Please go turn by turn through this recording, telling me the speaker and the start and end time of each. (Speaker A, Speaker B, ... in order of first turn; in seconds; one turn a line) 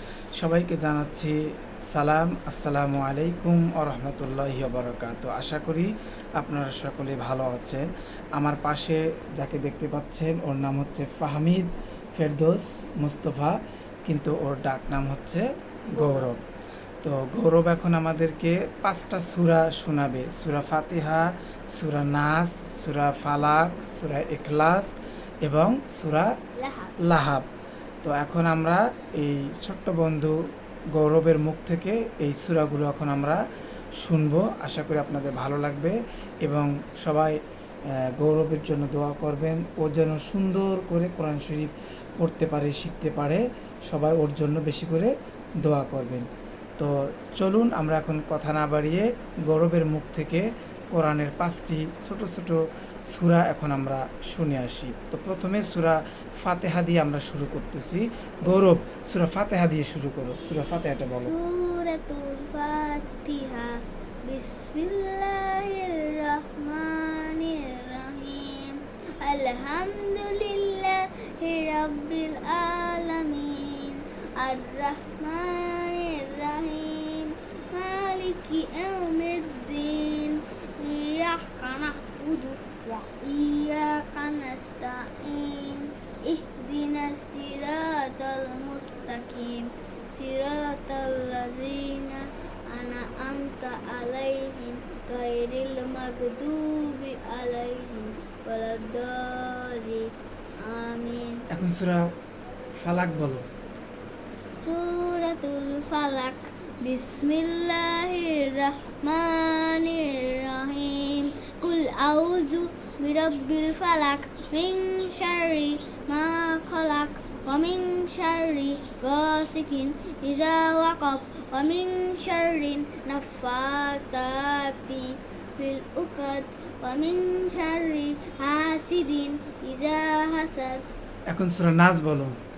Speaker A: 0.4-1.4
Speaker A: 1.9-16.4
Speaker B: 16.0-16.3
Speaker A: 17.0-24.9
Speaker A: 25.4-26.3
Speaker B: 26.6-27.0
Speaker A: 27.0-27.5
Speaker A: 28.0-30.4
Speaker A: 31.0-33.4
Speaker A: 34.0-37.4
Speaker A: 38.2-45.1
Speaker A: 45.6-46.3
Speaker A: 46.8-61.3
Speaker B: 61.1-101.5
Speaker A: 101.5-102.0
Speaker A: 102.8-103.5
Speaker B: 104.5-130.9
Speaker A: 131.3-132.4